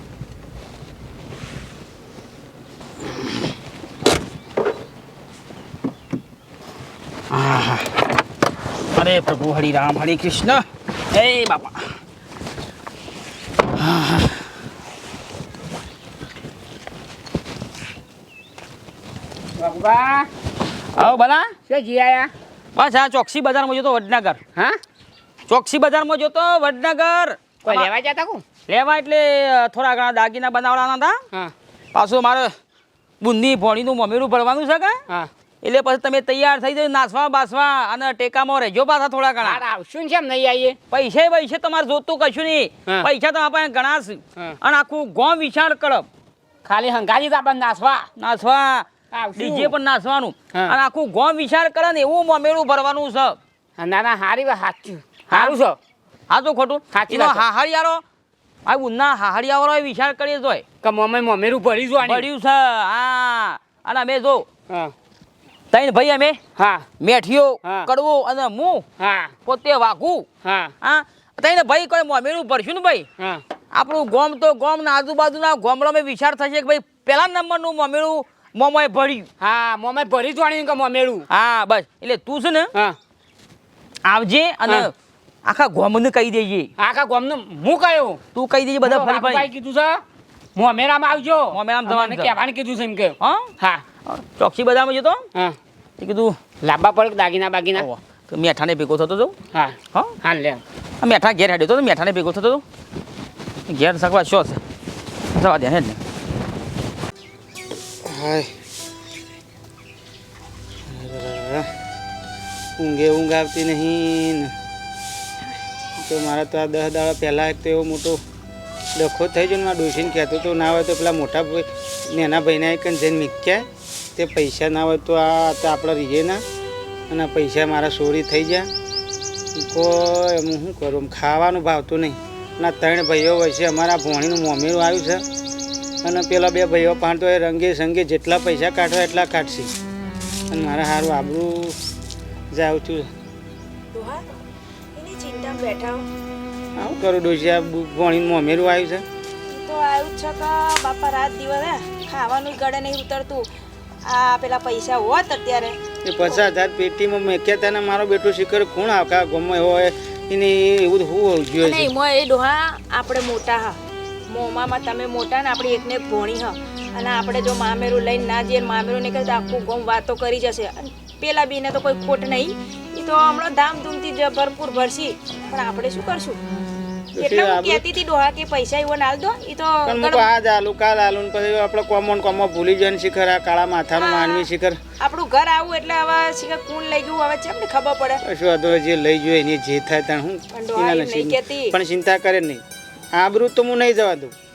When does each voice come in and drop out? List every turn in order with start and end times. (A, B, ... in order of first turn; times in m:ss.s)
0:07.3-0:07.9 A
0:08.9-0:11.8 A
0:13.8-0:14.4 A
0:19.6-0:20.3 B
0:21.0-0:21.6 A
0:21.0-0:22.3 B
0:22.7-0:24.4 A
0:25.5-0:27.9 A
0:27.6-0:28.4 B
0:28.7-0:31.2 A
0:31.9-0:32.5 A
0:33.2-0:35.0 A
0:35.6-0:39.6 A
0:39.4-0:40.8 B
0:40.9-0:46.1 A
0:46.6-0:48.1 B
0:48.2-0:53.4 A
0:49.1-0:49.7 B
0:53.8-0:55.8 B
0:55.3-0:55.6 A
0:56.3-0:58.0 A
0:56.9-0:57.4 B
0:58.6-1:00.6 A
1:00.8-1:02.3 B
1:02.0-1:04.5 A
1:05.7-1:06.4 A
1:06.6-1:06.8 B
1:07.0-1:08.8 A
1:07.6-1:07.9 B
1:09.0-1:09.3 B
1:09.4-1:10.3 A
1:10.4-1:10.7 B
1:10.8-1:13.1 A
1:13.7-1:19.3 A
1:19.4-1:21.2 B
1:21.3-1:22.7 A
1:24.0-1:24.9 A
1:25.4-1:26.7 A
1:26.8-1:28.2 B
1:28.3-1:29.5 A
1:28.8-1:30.0 B
1:30.6-1:33.8 B
1:31.5-1:32.4 A
1:33.2-1:33.5 A
1:34.1-1:35.2 A
1:36.0-1:36.4 A
1:36.6-1:37.9 B
1:37.7-1:39.4 A
1:39.5-1:40.6 B
1:41.0-1:42.6 A
1:43.7-1:44.6 A
1:45.3-1:46.0 A
1:48.0-1:48.5 C
1:50.9-1:51.7 C
1:52.8-1:54.5 C
1:56.0-1:58.2 C
1:59.0-2:06.4 C
2:07.1-2:08.7 C
2:09.6-2:15.2 C
2:16.0-2:19.7 C
2:20.5-2:21.8 C
2:22.5-2:23.1 C
2:23.9-2:24.2 D
2:24.9-2:26.1 D
2:26.8-2:29.0 C
2:29.5-2:33.5 D
2:34.0-2:36.4 D
2:36.0-2:41.9 C
2:41.6-2:43.8 D
2:44.3-2:56.4 D
2:57.1-2:57.8 C
2:57.2-3:00.3 D
2:59.8-3:04.8 C
3:03.9-3:04.5 D
3:05.0-3:08.2 D
3:08.2-3:12.6 C
3:10.5-3:11.8 D
3:13.1-3:14.3 C